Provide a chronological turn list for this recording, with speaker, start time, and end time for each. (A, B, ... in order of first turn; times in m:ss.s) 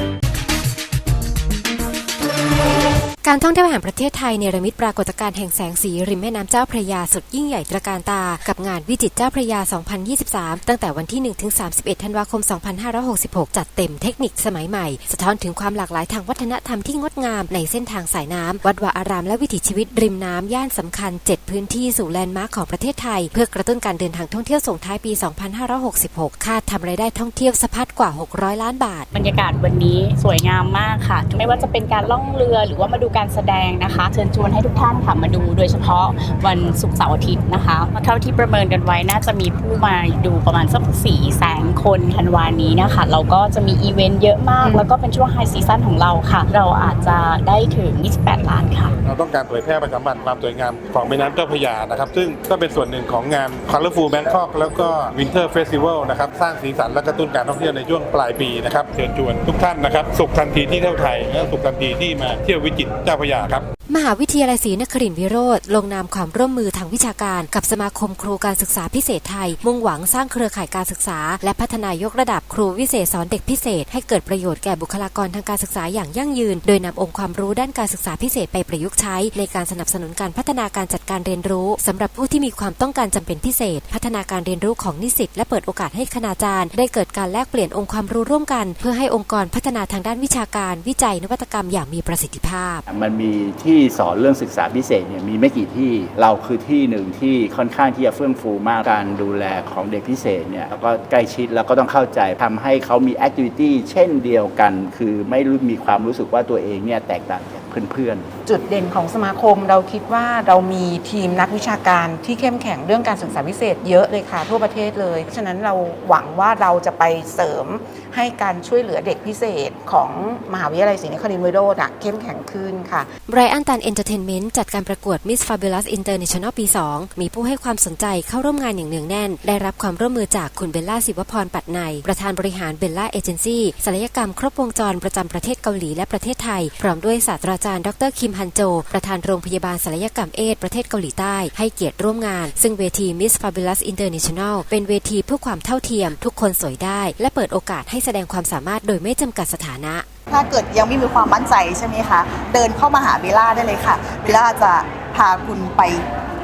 0:03.2-0:29.1 A
0:29.1-0:48.9 B
0:49.0-1:03.7 C
1:03.9-1:32.8 A
1:32.9-1:48.3 D
1:48.4-2:03.1 E
2:03.3-2:30.0 A
2:30.3-2:36.0 F